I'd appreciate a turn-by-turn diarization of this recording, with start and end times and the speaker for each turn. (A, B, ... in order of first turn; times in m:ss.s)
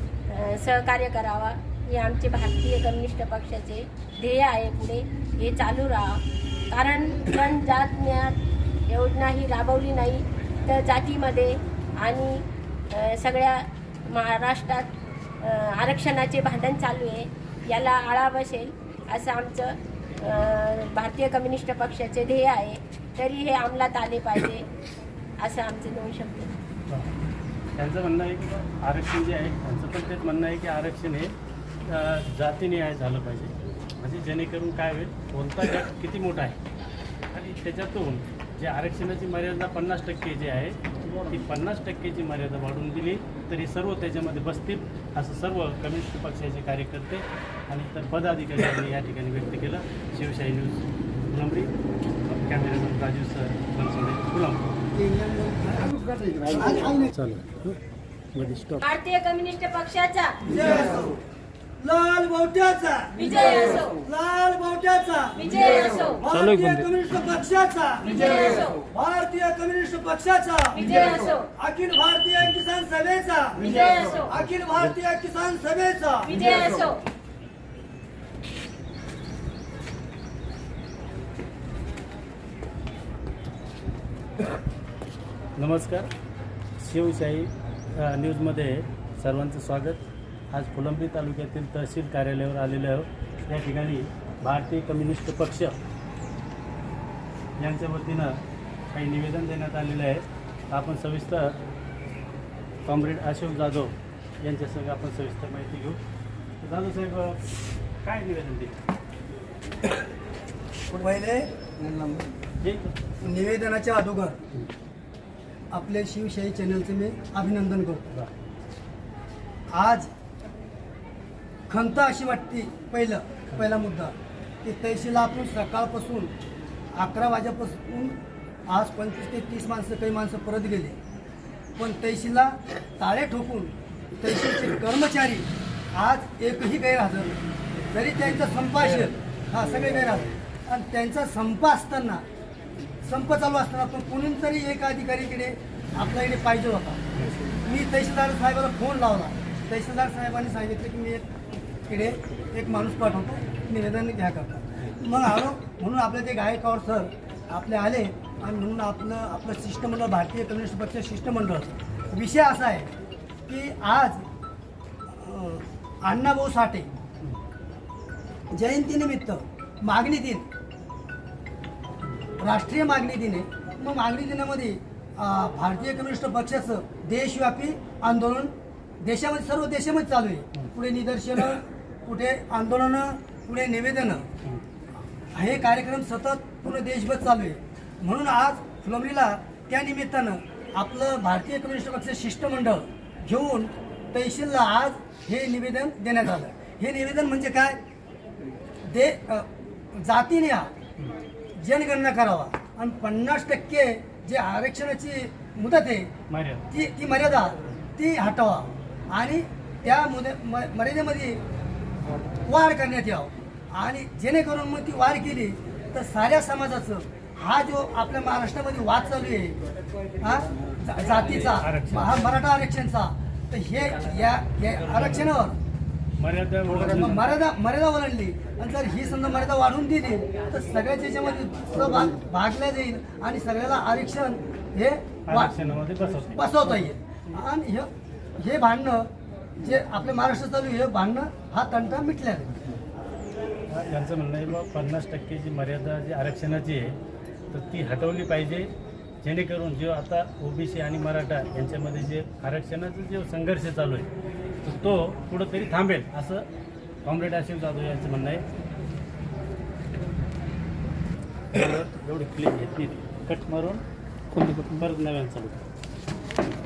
0:00.3-0:08.4 A
0:08.9-0:24.6 A
0:25.4-0:26.5 A
0:27.8-0:31.3 B
0:31.8-0:36.6 B
0:37.3-0:51.7 B
0:52.2-0:54.8 B
0:55.0-0:57.1 C
0:57.1-0:57.8 B
0:58.4-0:58.8 B
0:58.8-1:00.4 A
1:00.4-1:01.2 C
1:01.8-1:17.0 C
1:06.3-1:06.9 B
1:25.6-1:26.1 B
1:26.8-1:35.8 B
1:37.6-1:38.4 B
1:38.9-1:41.6 B
1:42.8-1:46.0 B
1:46.6-1:47.4 B
1:48.0-1:48.8 B
1:50.9-1:52.2 C
1:52.6-1:52.9 B
1:53.2-1:54.4 C
1:55.7-1:58.0 C
1:59.7-2:00.1 C
2:01.7-2:06.3 C
2:06.9-2:11.0 C
2:11.8-2:22.2 C
2:18.3-2:19.1 B
2:23.0-2:27.0 C
2:27.5-2:31.3 C
2:31.9-2:42.9 C
2:43.5-2:44.2 C
2:45.1-2:46.9 C
2:48.5-2:50.5 C
2:52.4-3:04.2 C
3:05.3-3:17.8 C
3:18.9-3:20.7 C
3:21.6-3:26.1 C
3:26.3-3:26.6 B
3:26.7-3:31.4 C
3:32.4-3:39.6 C
3:40.2-3:45.6 C
3:41.3-3:42.3 B
3:46.2-3:47.4 B
3:46.6-3:55.5 C
3:55.3-3:56.9 B
3:56.2-4:02.6 C
4:03.7-4:07.0 B
4:07.5-4:08.7 B
4:09.2-4:14.1 B
4:14.6-4:16.5 B
4:17.0-4:18.4 B
4:21.5-4:23.8 B
4:24.4-4:25.6 B